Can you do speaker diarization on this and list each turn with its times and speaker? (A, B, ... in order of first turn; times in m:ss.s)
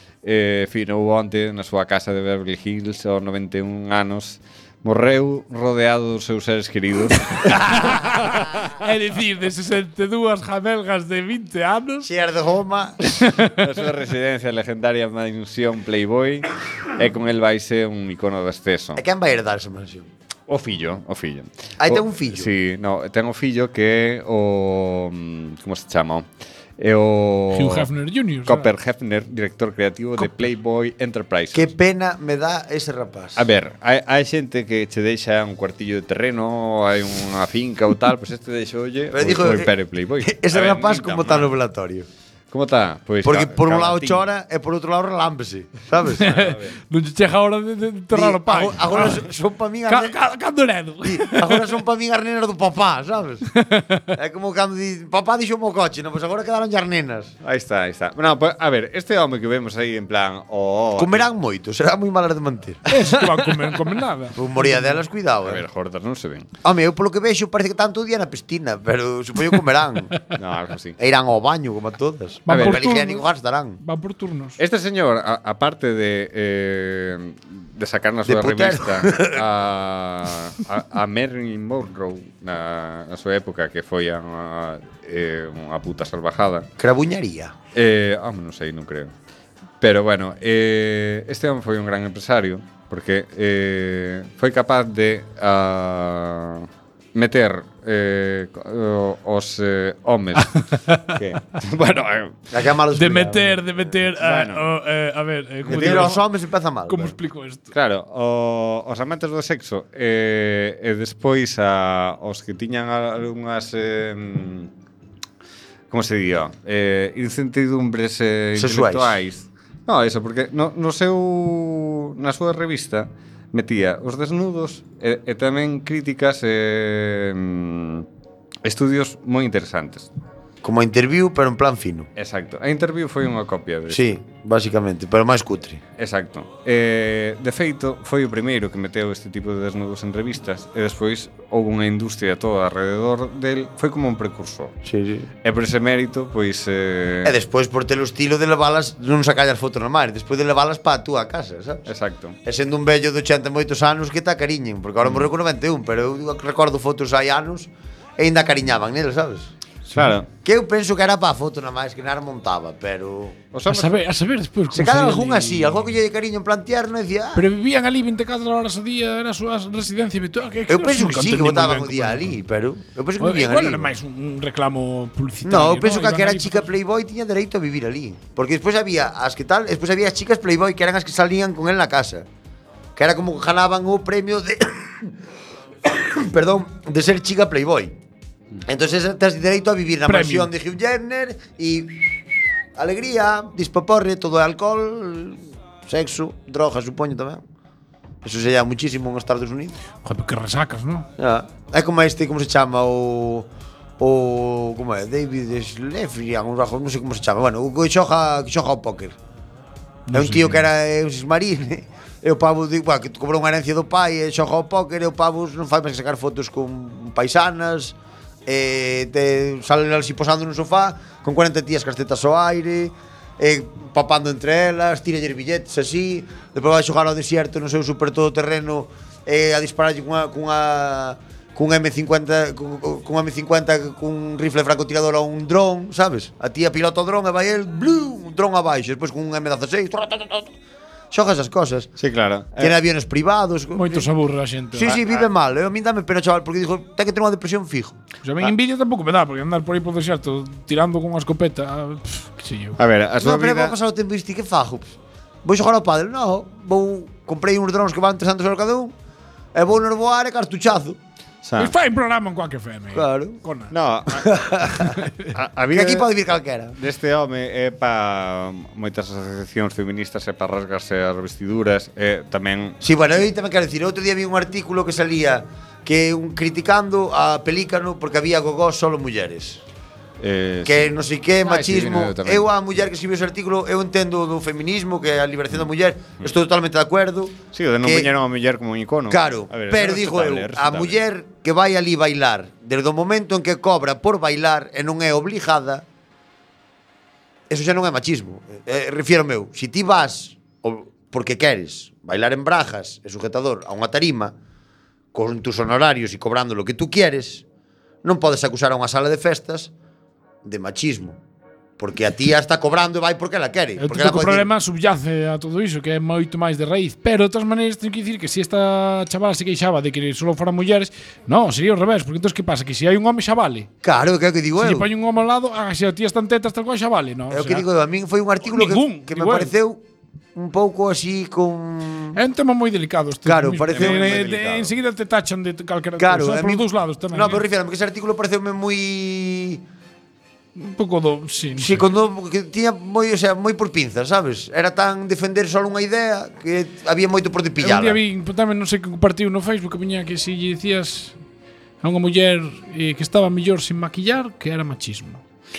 0:00.2-0:08.0 A
0:07.4-0:12.1 B
0:07.7-0:08.3 C
0:12.0-0:13.0 C
0:13.0-0:13.7 B
0:13.5-0:19.0 A
0:19.0-0:20.1 C
0:20.5-0:26.2 A
0:21.8-0:22.5 C
0:26.8-0:27.9 A
0:27.5-0:28.7 B
0:28.4-0:31.7 A
0:31.5-0:33.4 C
0:33.4-0:41.5 A
0:39.1-0:42.1 C
0:42.5-0:44.2 A
0:43.2-0:46.5 C
0:46.1-0:49.2 B
0:46.3-0:46.7 A
0:48.1-0:50.2 C
0:49.9-0:51.6 B
0:51.0-0:53.4 C
0:53.5-0:54.1 B
0:54.1-0:57.3 C
0:57.4-1:01.3 A
1:00.9-1:03.2 C
1:02.9-1:05.0 B
1:04.3-1:05.6 C
1:05.4-1:06.5 A
1:06.6-1:10.1 C
1:10.3-1:11.0 A
1:11.0-1:13.8 C
1:12.5-1:13.2 B
1:12.5-1:12.9 A
1:13.8-1:14.6 B
1:14.6-1:26.7 A
1:18.2-1:19.4 C
1:26.8-1:27.5 C
1:27.7-1:29.1 A
1:29.8-1:42.5 A
1:40.5-1:41.1 B
1:42.5-1:43.7 C
1:42.9-1:46.2 B
1:44.1-1:44.7 A
1:45.6-1:46.2 A
1:45.6-1:47.2 C
1:46.8-1:47.7 B
1:47.7-1:54.7 A
1:55.9-2:08.1 A
1:58.6-1:59.2 C
2:08.6-2:10.1 A
2:10.6-2:12.1 C
2:12.2-2:14.2 A
2:13.9-2:15.8 C
2:16.0-2:24.7 A
2:24.8-2:25.3 C
2:25.4-2:27.3 A
2:27.2-2:31.9 C
2:31.9-2:32.4 A
2:32.4-2:39.5 C
2:35.0-2:35.3 A
2:39.9-2:40.3 A
2:40.4-2:43.4 C
2:43.5-2:44.0 A
2:43.7-2:45.8 B
2:44.7-2:47.4 C
2:47.3-2:52.3 B
2:50.7-2:53.9 C
2:53.2-2:56.7 B
2:55.4-3:02.2 C
3:03.0-3:05.1 C
3:05.8-3:08.0 C
3:08.6-3:17.4 C
3:10.0-3:10.5 B
3:18.2-3:19.8 C
3:20.0-3:21.1 B
3:21.2-3:23.5 C
3:24.0-3:29.1 C
3:30.1-3:30.6 B
3:30.1-4:00.5 C
4:01.1-4:01.9 C
4:02.0-4:02.8 A
4:02.6-4:04.1 C
4:03.7-4:05.0 B
4:04.7-4:08.0 C
4:08.2-4:12.8 B
4:12.8-4:13.8 A
4:13.2-4:18.9 C
4:19.5-4:21.0 C
4:21.4-4:21.7 A
4:21.6-4:23.7 B
4:22.9-4:23.4 C
4:23.7-4:26.1 A
4:24.1-4:25.0 C
4:25.7-4:26.8 C
4:26.7-4:32.8 A
4:32.8-4:39.6 C
4:40.2-4:42.5 A
4:40.6-4:48.1 C
4:47.5-4:51.0 A
4:49.1-4:55.8 C
4:57.5-5:04.3 C
5:05.1-5:07.4 C
5:08.0-5:09.7 C
5:10.4-5:11.2 C
5:11.8-5:14.5 C
5:13.8-5:23.7 B
5:23.8-5:24.9 C
5:24.6-5:27.6 B
5:27.3-5:29.8 C
5:28.4-5:29.5 B
5:30.3-5:32.2 C
5:32.1-5:37.4 B
5:33.2-5:34.3 C
5:33.7-5:34.7 A
5:36.0-5:39.6 C
5:40.6-5:41.8 B
5:41.6-5:48.0 C
5:47.6-5:51.2 B
5:51.8-5:55.2 B